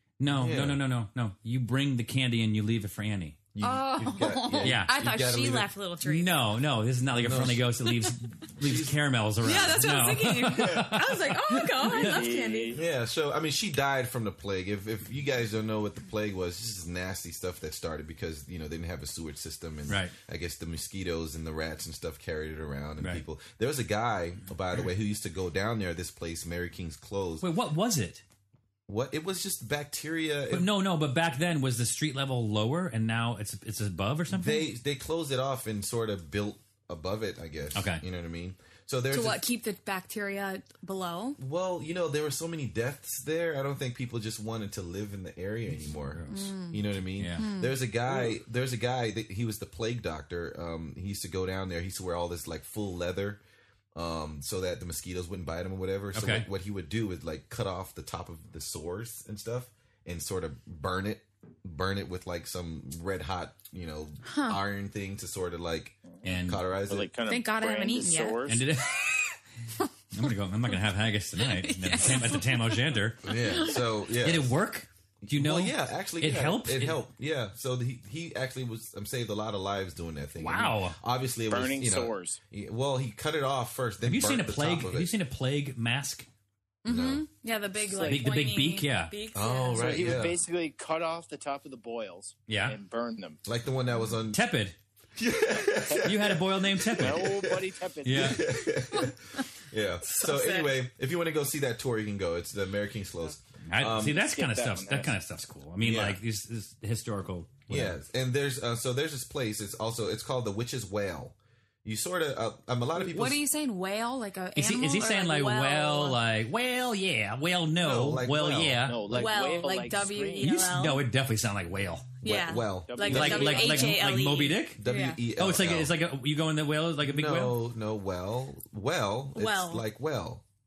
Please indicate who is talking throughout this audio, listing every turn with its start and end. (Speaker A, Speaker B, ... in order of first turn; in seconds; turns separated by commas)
Speaker A: 0.2-3.4, Speaker B: 0.3-0.8, Speaker B: 3.5-5.7, Speaker C: 3.6-6.5, Speaker A: 4.6-4.9, Speaker A: 6.0-12.2, Speaker B: 7.1-7.9, Speaker B: 8.6-9.0, Speaker C: 9.4-12.8, Speaker D: 11.8-12.8, Speaker B: 12.7-27.5, Speaker A: 19.9-20.1, Speaker A: 23.0-23.2, Speaker A: 27.4-28.2, Speaker B: 28.9-30.7, Speaker A: 30.5-34.7, Speaker B: 34.3-39.4, Speaker A: 37.7-38.0, Speaker C: 39.1-41.4, Speaker B: 41.4-53.4, Speaker A: 46.0-47.5, Speaker C: 46.3-47.8, Speaker B: 53.9-67.1, Speaker A: 56.1-56.5, Speaker C: 64.2-64.6, Speaker A: 66.2-66.6, Speaker D: 66.9-68.6, Speaker C: 67.3-68.4, Speaker A: 68.5-69.2, Speaker A: 70.1-73.2, Speaker C: 71.4-72.8, Speaker B: 73.2-74.5, Speaker C: 73.4-73.8, Speaker A: 74.2-77.0, Speaker B: 75.2-85.1, Speaker A: 80.4-81.0, Speaker D: 81.5-82.4, Speaker A: 84.0-86.3, Speaker C: 86.8-90.2, Speaker B: 86.8-87.2, Speaker D: 87.9-88.3, Speaker A: 88.0-89.1, Speaker B: 89.3-90.4, Speaker D: 89.8-93.4, Speaker A: 92.5-92.8, Speaker B: 93.4-94.4, Speaker A: 94.3-94.8, Speaker B: 95.2-104.2, Speaker D: 95.7-96.3, Speaker A: 96.0-97.4, Speaker D: 97.0-98.4, Speaker A: 98.0-98.4, Speaker C: 100.0-100.8, Speaker A: 103.7-108.0, Speaker D: 104.1-105.2, Speaker B: 105.8-106.2, Speaker B: 107.7-113.4, Speaker C: 112.9-116.2, Speaker A: 114.5-119.2, Speaker B: 117.8-119.0, Speaker D: 118.8-120.5, Speaker C: 119.1-121.0, Speaker A: 120.4-122.1, Speaker C: 122.2-125.2, Speaker B: 122.2-123.8, Speaker D: 122.9-123.9, Speaker A: 123.0-124.8, Speaker B: 124.8-126.0, Speaker A: 125.4-127.6, Speaker B: 127.0-130.4, Speaker C: 129.3-129.8